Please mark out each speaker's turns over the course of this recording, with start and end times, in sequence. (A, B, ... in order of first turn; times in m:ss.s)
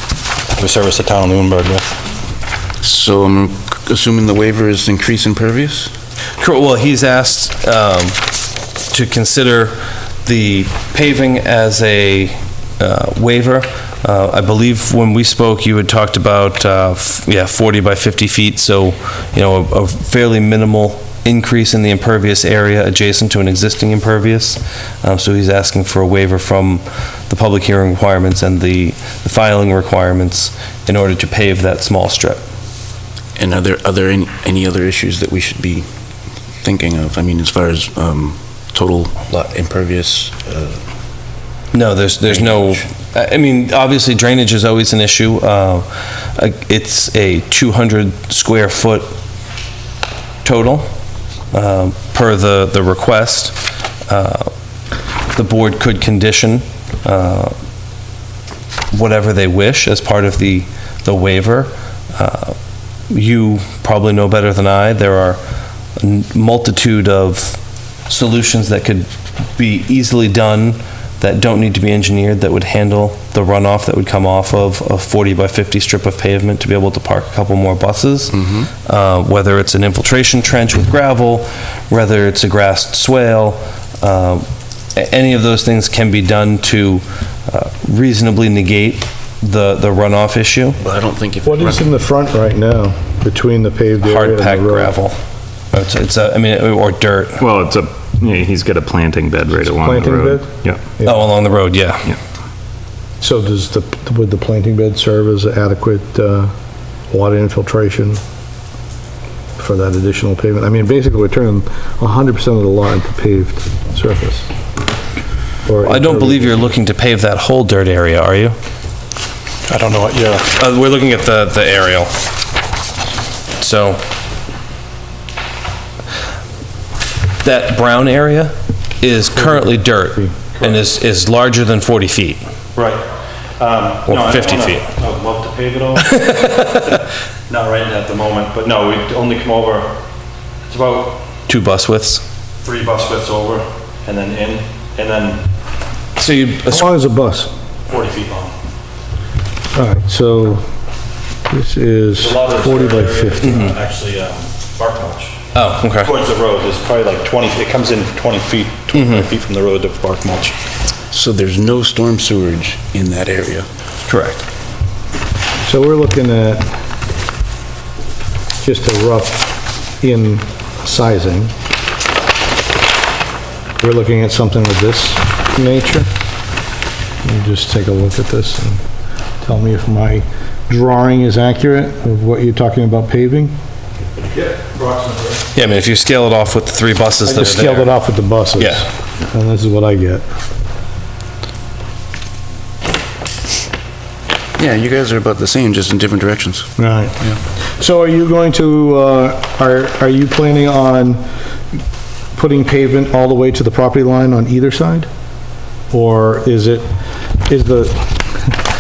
0:00.6-0:01.9 A
0:02.8-0:05.9 B
0:06.4-0:08.3 C
0:08.9-0:32.4 C
0:33.4-0:35.9 B
0:36.6-0:40.8 B
0:41.7-0:49.1 C
0:42.3-0:42.8 B
0:50.4-0:50.9 C
0:51.5-0:53.6 C
0:54.1-0:54.5 C
0:55.3-0:57.5 C
0:58.9-1:02.6 C
1:03.1-1:05.4 C
1:06.0-1:30.8 C
1:18.4-1:18.7 B
1:30.8-1:32.0 B
1:31.4-1:35.0 D
1:34.0-1:35.2 C
1:35.7-1:37.4 C
1:37.4-1:40.8 E
1:39.6-1:41.3 D
1:41.1-1:42.1 C
1:43.2-1:46.5 D
1:47.1-1:48.2 D
1:49.6-1:54.5 D
1:55.7-1:56.8 D
1:55.8-1:58.6 C
1:59.7-2:00.6 A
2:00.6-2:02.1 C
2:03.6-2:04.0 C
2:07.4-2:12.4 C
2:12.8-2:13.0 A
2:13.6-2:16.9 A
2:14.1-2:14.8 C
2:17.5-2:19.9 A
2:20.7-2:21.2 A
2:21.5-2:22.2 C
2:22.6-2:25.5 A
2:26.2-2:26.8 C
2:26.7-2:27.5 D
2:27.9-2:28.5 A
2:29.7-2:30.6 D
2:31.5-2:33.6 D
2:32.2-2:40.6 A
2:35.6-2:36.1 C
2:41.1-2:43.7 B
2:44.1-2:44.4 C
2:45.6-2:46.8 D
2:48.6-2:51.5 D
2:53.8-2:56.1 D
2:57.2-2:58.8 D
2:59.4-3:03.6 D
3:04.2-3:05.5 A
3:05.6-3:07.9 C
3:07.2-3:10.2 D
3:14.6-3:16.7 B
3:16.8-3:21.2 D
3:22.4-3:25.1 D
3:25.9-3:26.9 D
3:27.4-3:28.5 D